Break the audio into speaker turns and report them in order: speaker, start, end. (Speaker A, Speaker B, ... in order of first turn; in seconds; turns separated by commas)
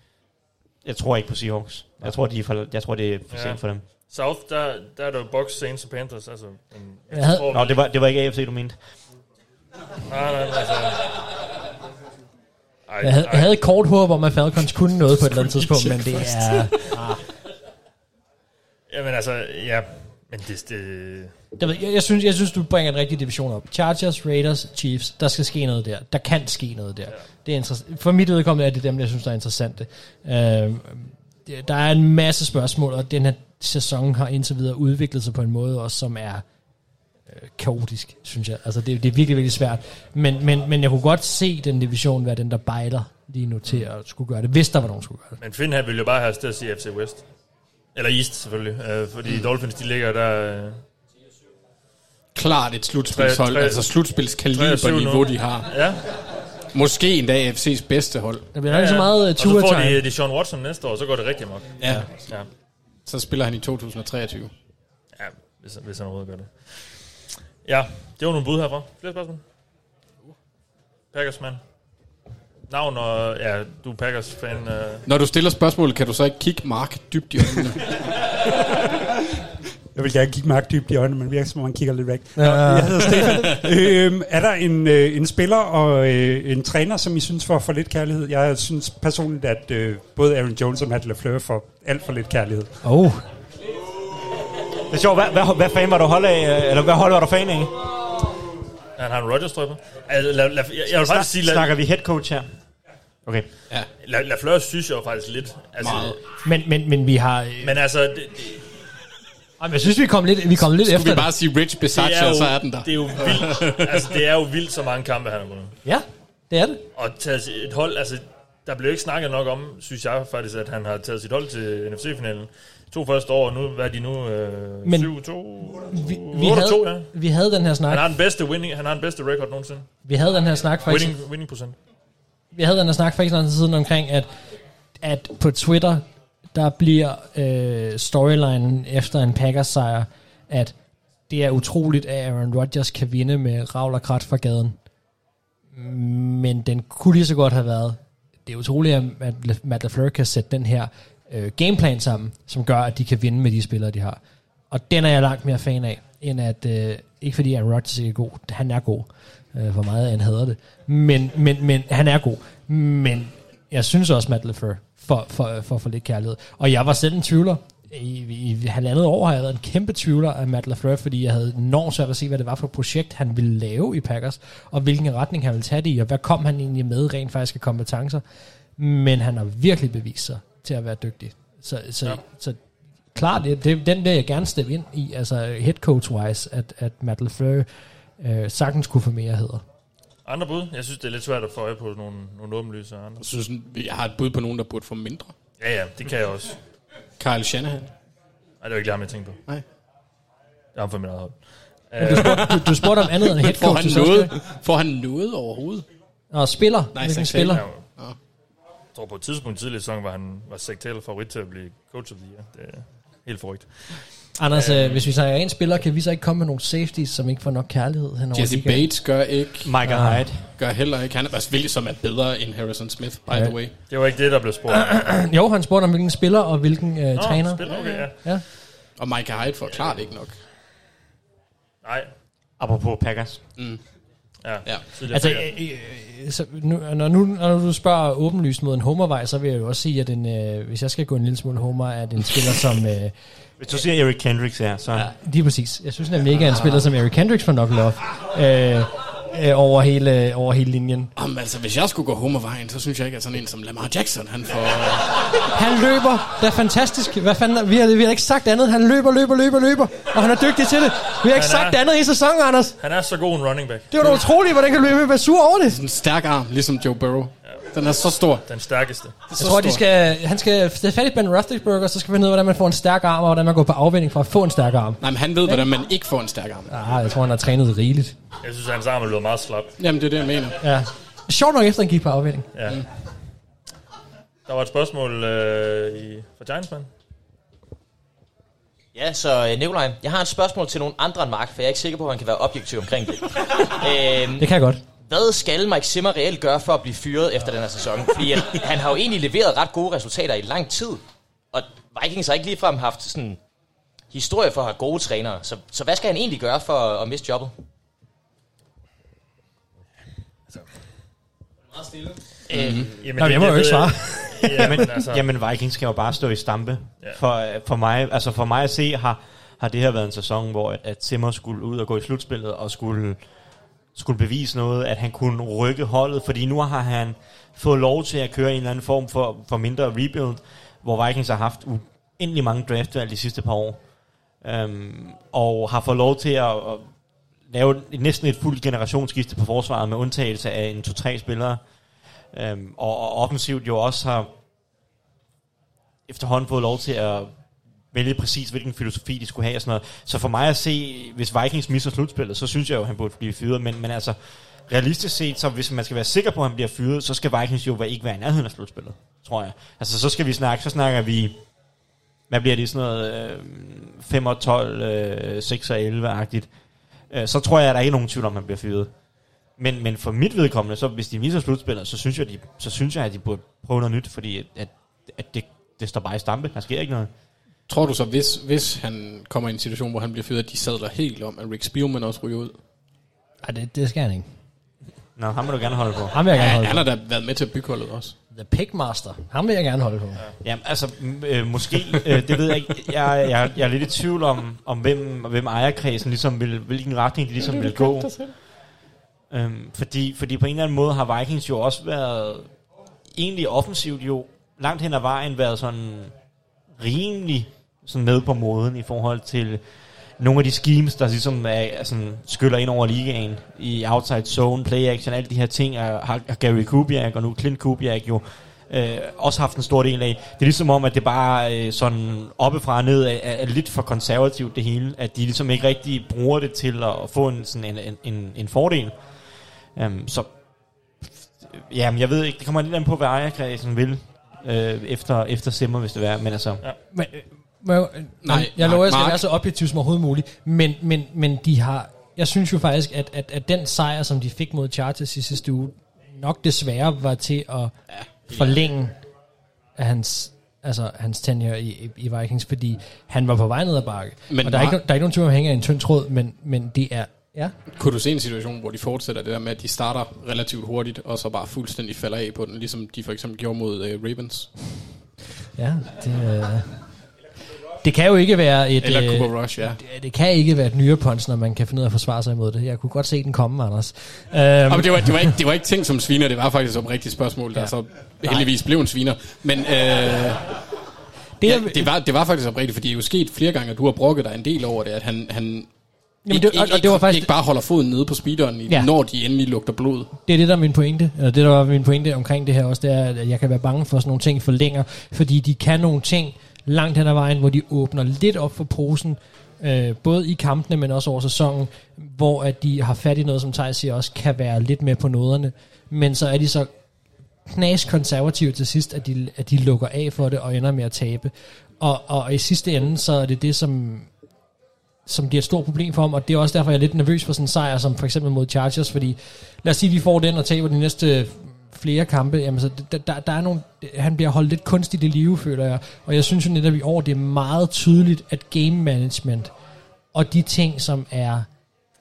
Speaker A: 0.8-3.8, Speaker B: 3.3-7.8, Speaker C: 7.1-7.5, Speaker A: 7.5-8.8, Speaker B: 10.1-11.1, Speaker B: 12.9-13.5, Speaker C: 13.0-17.2, Speaker D: 15.6-16.3, Speaker B: 18.9-21.3, Speaker C: 21.6-36.5, Speaker C: 37.3-45.4, Speaker B: 45.4-47.2, Speaker B: 48.0-50.8, Speaker D: 52.3-55.9, Speaker B: 53.1-53.9, Speaker B: 54.5-56.0, Speaker D: 56.7-58.5, Speaker C: 58.5-60.0, Speaker B: 58.7-61.7, Speaker D: 61.8-62.1, Speaker D: 63.1-64.5, Speaker B: 65.2-67.0, Speaker B: 67.6-69.4, Speaker B: 71.1-71.6, Speaker B: 72.7-75.0, Speaker D: 75.1-78.0, Speaker E: 80.0-92.8, Speaker C: 82.3-83.6, Speaker C: 92.8-93.2, Speaker A: 94.9-97.7, Speaker B: 99.0-101.7, Speaker A: 100.9-102.5, Speaker B: 104.0-106.2, Speaker D: 105.8-106.2, Speaker C: 106.4-107.8, Speaker B: 107.6-108.6, Speaker C: 109.6-111.3, Speaker D: 110.7-114.1, Speaker B: 111.9-115.8, Speaker C: 115.8-116.8, Speaker B: 117.0-127.1, Speaker C: 124.8-125.1, Speaker C: 125.7-128.1, Speaker B: 127.9-129.9, Speaker C: 130.1-131.2, Speaker B: 130.8-131.8, Speaker C: 132.5-134.3, Speaker C: 135.0-140.7, Speaker C: 141.3-144.8, Speaker C: 145.7-154.2, Speaker C: 154.7-178.2, Speaker C: 178.8-182.6, Speaker C: 183.2-187.7, Speaker C: 188.2-189.6, Speaker B: 190.2-193.3, Speaker D: 193.2-195.3, Speaker B: 195.6-196.6, Speaker D: 197.2-197.9, Speaker B: 198.6-199.4, Speaker B: 200.8-202.6, Speaker C: 202.0-204.3, Speaker D: 202.1-205.9, Speaker C: 206.3-207.7, Speaker D: 206.9-208.2, Speaker B: 207.4-207.8, Speaker B: 208.9-215.1, Speaker C: 214.4-218.9, Speaker D: 218.3-219.9, Speaker A: 219.6-220.5, Speaker C: 219.9-220.3, Speaker D: 220.6-223.7, Speaker C: 223.3-223.6, Speaker B: 223.9-225.0, Speaker C: 224.7-228.4, Speaker B: 227.2-228.1, Speaker D: 227.7-228.1, Speaker D: 229.0-230.4, Speaker B: 231.8-232.1, Speaker A: 232.6-233.4, Speaker B: 234.4-235.5, Speaker C: 235.1-243.1, Speaker A: 243.6-245.1, Speaker C: 245.0-251.1, Speaker D: 251.2-255.4, Speaker C: 255.5-262.8, Speaker B: 261.3-261.8, Speaker B: 262.8-264.2, Speaker C: 263.9-265.8, Speaker D: 265.7-268.4, Speaker B: 268.5-269.2, Speaker D: 269.3-269.9, Speaker C: 269.4-275.7, Speaker D: 275.0-276.7, Speaker C: 276.7-278.1, Speaker B: 278.4-279.7, Speaker D: 279.8-280.6, Speaker C: 280.6-282.5, Speaker B: 282.5-282.8, Speaker B: 284.5-286.9, Speaker F: 288.9-294.5, Speaker C: 294.4-294.8, Speaker F: 295.1-303.4, Speaker F: 304.1-307.5, Speaker A: 312.5-312.9, Speaker D: 312.5-312.9, Speaker B: 313.0-315.2, Speaker C: 313.2-314.8, Speaker A: 314.5-323.2, Speaker A: 323.9-333.8, Speaker A: 334.4-336.9, Speaker A: 337.5-341.6, Speaker A: 342.3-344.3, Speaker A: 346.1-347.3, Speaker A: 347.9-361.4, Speaker A: 362.3-366.5, Speaker A: 367.1-368.9, Speaker A: 369.6-377.1, Speaker D: 377.7-382.6, Speaker C: 383.4-384.3, Speaker A: 385.2-386.2, Speaker C: 386.1-386.8, Speaker D: 386.3-388.1, Speaker C: 388.3-390.2, Speaker A: 390.4-398.1, Speaker D: 397.4-398.3, Speaker A: 399.3-402.5, Speaker A: 403.1-406.1, Speaker A: 406.8-409.6, Speaker A: 410.2-429.0, Speaker A: 429.8-430.3, Speaker A: 431.0-436.6, Speaker C: 436.9-449.0, Speaker D: 438.2-439.2, Speaker D: 447.9-448.6, Speaker C: 449.8-457.6, Speaker D: 454.3-454.8, Speaker D: 457.7-464.6, Speaker C: 465.6-466.8, Speaker C: 467.8-475.3, Speaker D: 468.8-469.8, Speaker D: 474.7-480.6, Speaker C: 477.5-478.5, Speaker C: 481.4-481.9, Speaker D: 481.4-485.7, Speaker C: 486.3-487.3, Speaker D: 486.3-490.1, Speaker C: 490.3-506.7, Speaker C: 507.5-514.1, Speaker C: 515.1-529.5, Speaker C: 530.1-531.5